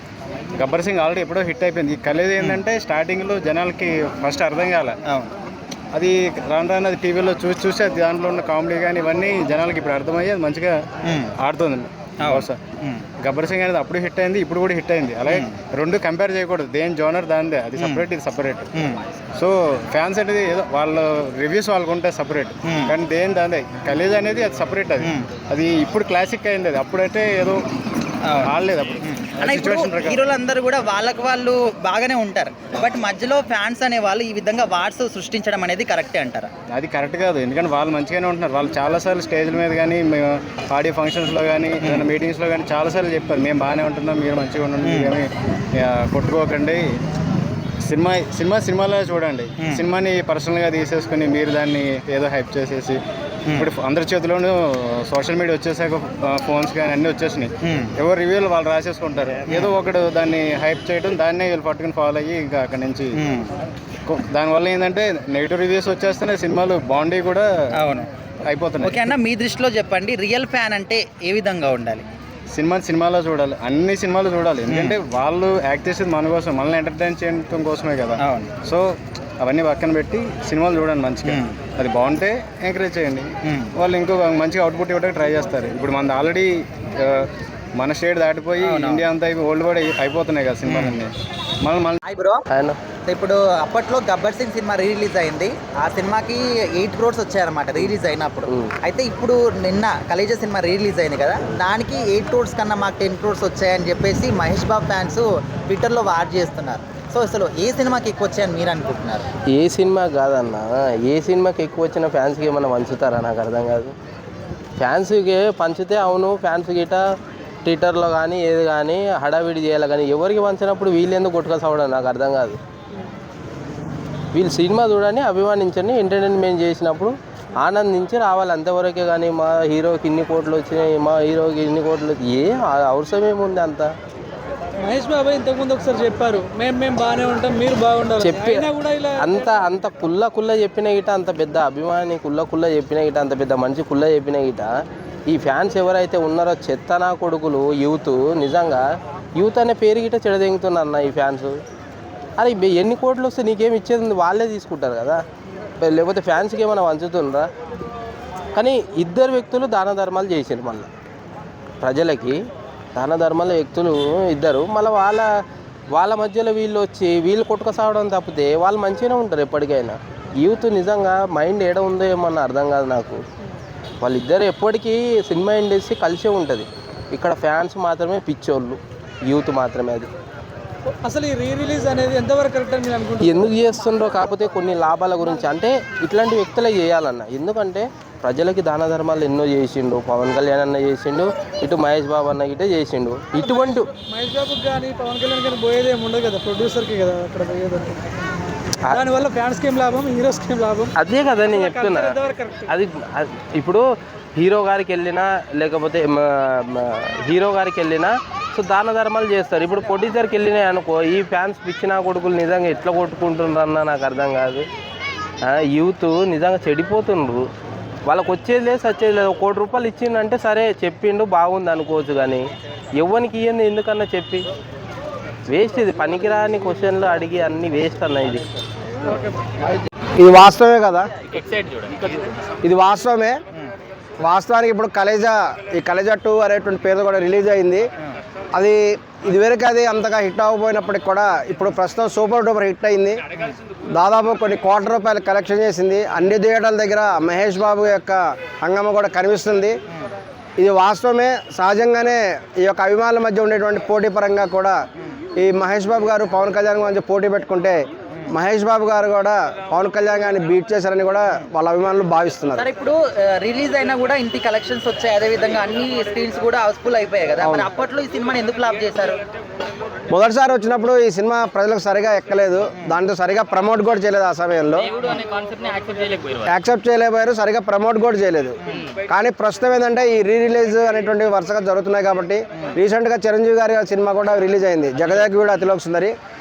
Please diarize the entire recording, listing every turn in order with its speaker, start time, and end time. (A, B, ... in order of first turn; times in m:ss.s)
0:00.6-0:05.0 A
0:05.9-0:10.8 A
0:11.0-0:11.3 B
0:11.4-0:12.6 A
0:12.2-0:13.0 B
0:13.2-0:18.7 A
0:17.8-0:18.0 B
0:18.7-0:19.0 B
0:19.4-0:27.6 A
0:22.6-0:22.9 B
0:25.0-0:25.3 B
0:28.2-0:28.5 B
0:28.4-0:30.2 A
0:29.0-0:36.5 B
0:36.7-0:46.9 A
0:41.8-0:42.1 B
0:44.8-0:45.2 B
0:47.8-1:03.1 A
0:57.6-0:57.9 B
1:03.2-1:03.5 B
1:04.1-1:07.5 A
1:07.8-1:08.1 B
1:08.5-1:09.1 A
1:08.8-1:12.0 B
1:12.5-1:32.0 A
1:14.7-1:15.0 B
1:18.2-1:18.5 B
1:21.2-1:21.6 B
1:23.4-1:23.7 B
1:28.6-1:29.0 B
1:30.6-1:31.0 B
1:32.0-1:32.4 B
1:32.5-1:32.8 C
1:33.1-1:49.2 B
1:49.5-1:53.9 C
1:54.8-1:57.0 C
1:57.6-2:02.6 C
2:04.3-2:13.9 C
2:14.8-2:19.5 D
2:18.2-2:24.7 C
2:25.3-2:28.8 C
2:29.3-2:31.6 C
2:32.4-2:35.2 C
2:35.8-2:37.5 C
2:38.5-2:40.9 C
2:41.8-2:42.4 C
2:42.9-2:45.3 C
2:45.9-2:53.2 C
2:54.0-3:00.1 C
3:01.0-3:03.4 D
3:03.2-3:13.9 C
3:13.4-3:18.0 D
3:18.9-3:20.9 D
3:21.0-3:34.7 C
3:21.4-3:22.7 D
3:35.4-3:37.4 C
3:38.0-3:44.5 C
3:45.5-3:48.5 C
3:50.2-3:51.1 E
3:52.6-3:53.4 E
3:54.2-3:57.8 E
3:58.5-4:03.2 E
4:03.9-4:09.8 E
4:10.6-4:14.8 E
4:15.4-4:17.8 E
4:18.3-4:22.6 E
4:22.6-4:29.2 B
4:27.4-4:27.7 E
4:30.1-4:34.9 E
4:35.0-4:36.4 B
4:36.4-4:38.5 E
4:38.6-4:38.9 B
4:39.1-4:46.1 E